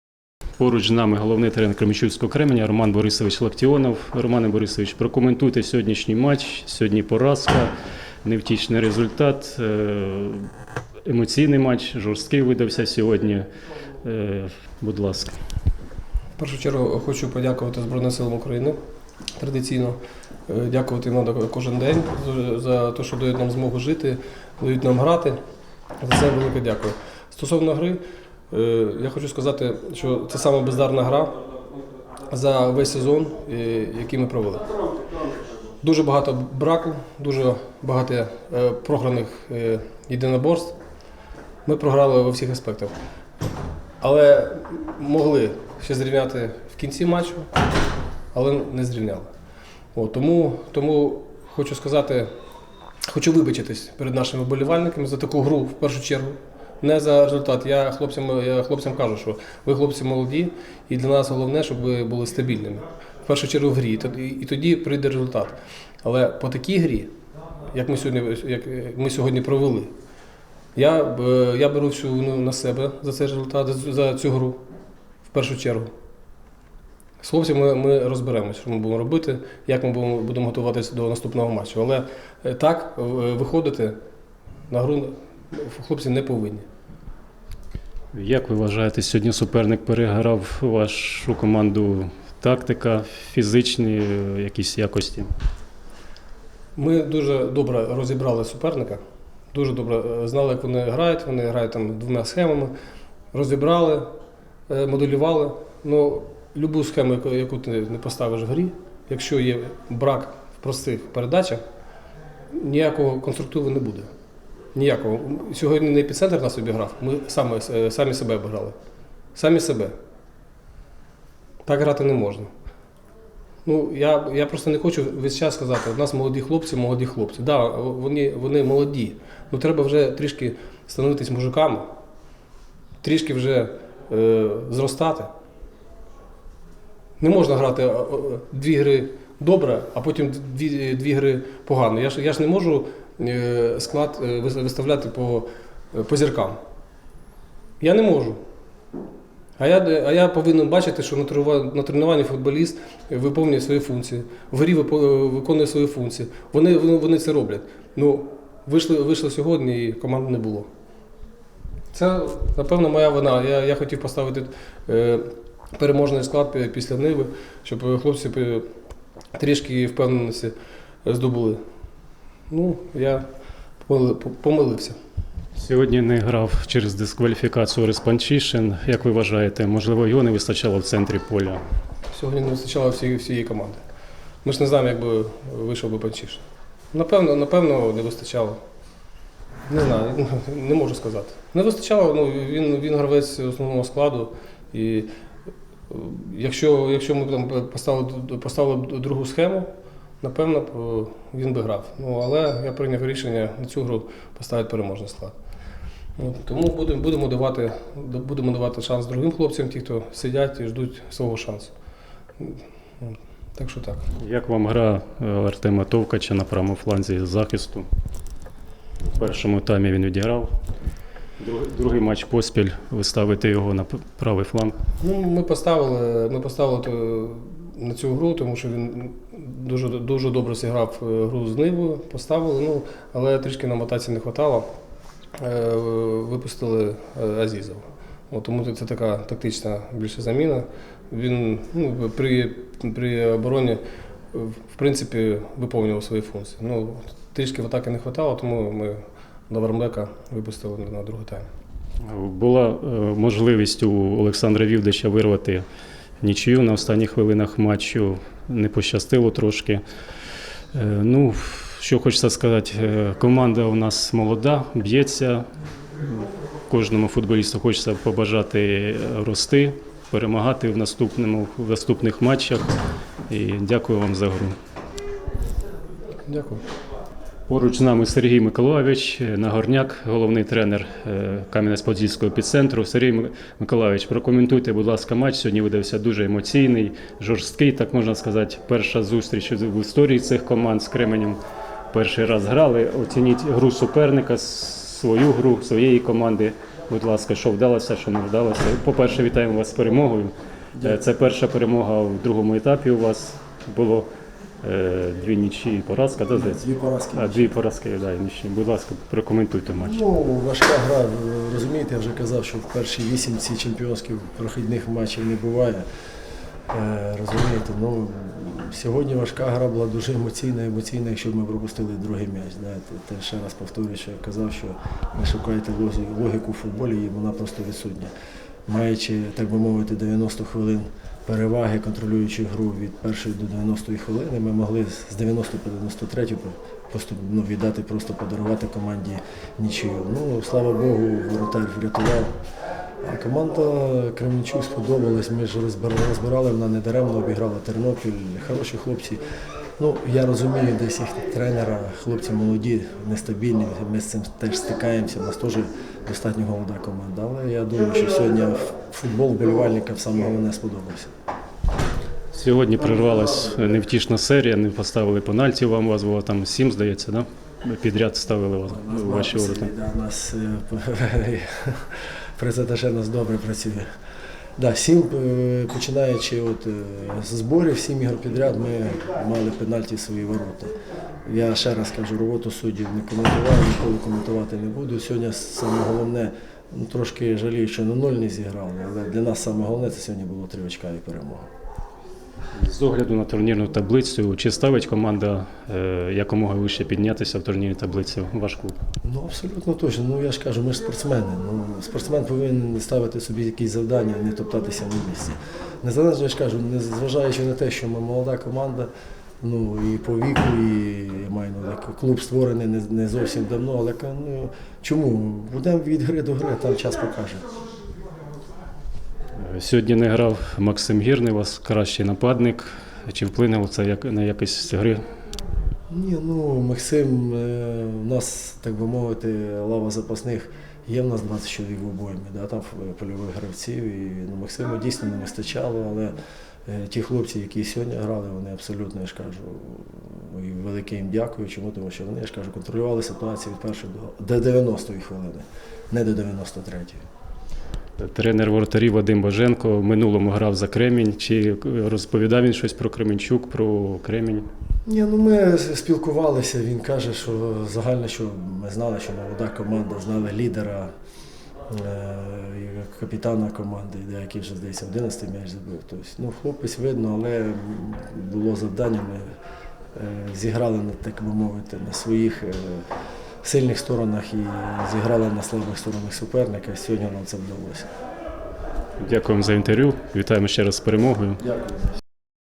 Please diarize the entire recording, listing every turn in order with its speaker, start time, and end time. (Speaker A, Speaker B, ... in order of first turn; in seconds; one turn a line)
Speaker A: 0.6-7.7
Speaker A: 8.2-10.4
Speaker A: 11.1-13.5
Speaker A: 14.0-15.3
Speaker B: 16.4-18.8
Speaker B: 19.4-25.4
Speaker B: 26.0-31.4
Speaker B: 32.3-34.7
Speaker B: 35.8-40.8
Speaker B: 41.6-42.9
Speaker B: 44.0-47.5
Speaker B: 48.3-49.3
Speaker B: 49.9-52.3
Speaker B: 53.1-67.1
Speaker B: 67.7-69.9
Speaker B: 70.7-74.6
Speaker B: 75.2-75.9
Speaker B: 77.2-84.0
Speaker B: 84.7-86.7
Speaker A: 88.1-95.3
Speaker B: 96.8-99.0
Speaker B: 99.5-102.7
Speaker B: 103.3-104.1
Speaker B: 104.7-111.6
Speaker B: 112.5-114.1
Speaker B: 114.7-118.8
Speaker B: 119.3-119.9
Speaker B: 121.6-122.5
Speaker B: 123.6-131.9
Speaker B: 133.0-135.3
Speaker B: 137.2-146.6
Speaker B: 147.8-148.4
Speaker B: 149.6-160.7
Speaker B: 161.9-168.6
Speaker B: 169.3-171.6
Speaker B: 172.5-173.2
Speaker B: 173.8-175.0
Speaker A: 175.6-181.6
Speaker B: 182.1-183.8
Speaker B: 184.4-188.6
Speaker B: 189.7-195.1
Speaker B: 195.9-199.7
Speaker B: 200.2-205.3
Speaker B: 206.2-211.7
Speaker B: 212.4-214.1
Speaker A: 214.2-217.8
Speaker A: 219.0-220.5
Speaker A: 221.4-224.7
Speaker B: 225.0-234.7
Speaker B: 235.4-243.8
Speaker B: 244.3-251.4
Speaker A: 252.0-255.6
Speaker A: 256.2-259.8
Speaker A: 260.7-265.4
Speaker A: 266.2-272.7
Speaker A: 273.3-274.5
Speaker B: 276.3-276.6
Speaker A: 277.5-291.4
Speaker A: 291.9-304.1
Speaker A: 304.6-306.6
Speaker C: 306.3-307.5
Speaker A: 307.1-310.0
Speaker C: 309.8-315.9
Speaker C: 316.7-328.1
Speaker C: 328.7-342.3
Speaker C: 343.0-349.2
Speaker C: 349.8-361.1
Speaker A: 362.3-369.7
Speaker C: 368.7-373.8
Speaker C: 374.6-380.7
Speaker C: 381.2-391.5
Speaker A: 392.6-398.8
Speaker C: 399.0-408.9
Speaker C: 409.4-417.4
Speaker A: 419.4-425.0
Speaker C: 425.9-447.0
Speaker A: 448.0-454.4
Speaker C: 454.9-460.9
Speaker C: 461.7-469.2
Speaker C: 469.9-472.8
Speaker C: 473.4-477.9
Speaker A: 479.0-481.4
Speaker C: 481.4-481.8